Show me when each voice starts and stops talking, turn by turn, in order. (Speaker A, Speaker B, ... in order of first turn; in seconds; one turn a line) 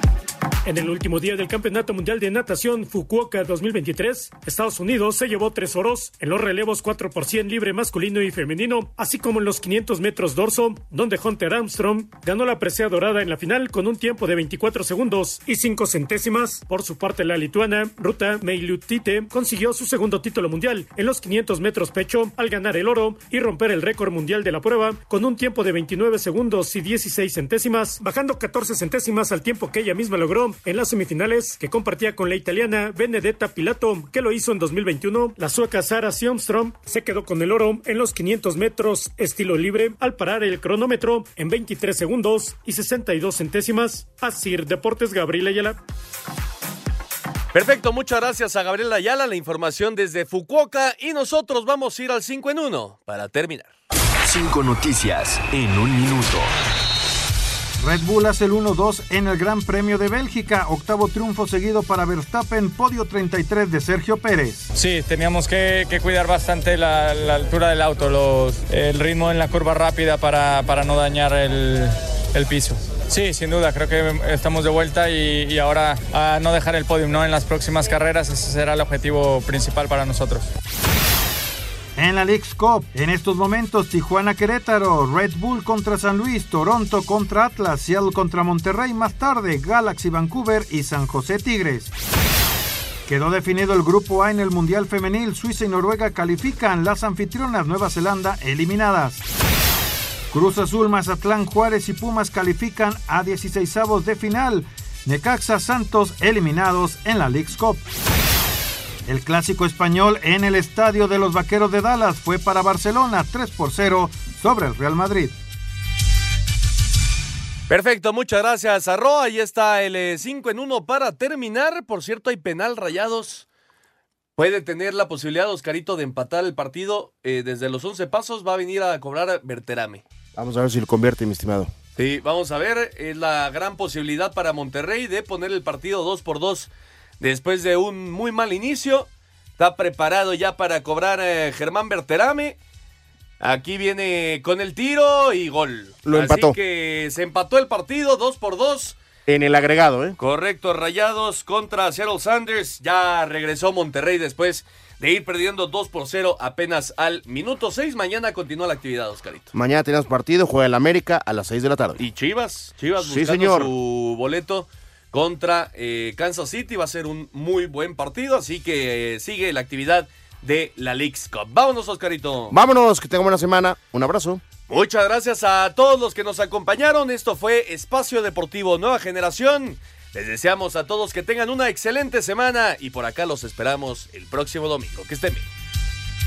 Speaker A: 0.7-45.8
Speaker B: 47.5-53.7
Speaker C: 54.3-56.5
Speaker D: 57.8-64.7
Speaker E: 64.8-80.5
Speaker D: 82.0-91.9
Speaker D: 93.1-99.2
Speaker D: 100.3-107.8
Speaker D: 109.1-115.3
Speaker B: 117.7-123.5
Speaker B: 124.4-130.0
Speaker F: 130.4-131.7
Speaker B: 132.0-142.6
Speaker B: 143.4-149.0
Speaker F: 146.1-146.6
Speaker F: 149.3-150.2
Speaker B: 150.2-159.5
Speaker F: 159.5-162.0
Speaker B: 162.0-172.6
Speaker F: 163.0-163.7
Speaker F: 172.5-174.4
Speaker B: 174.7-185.5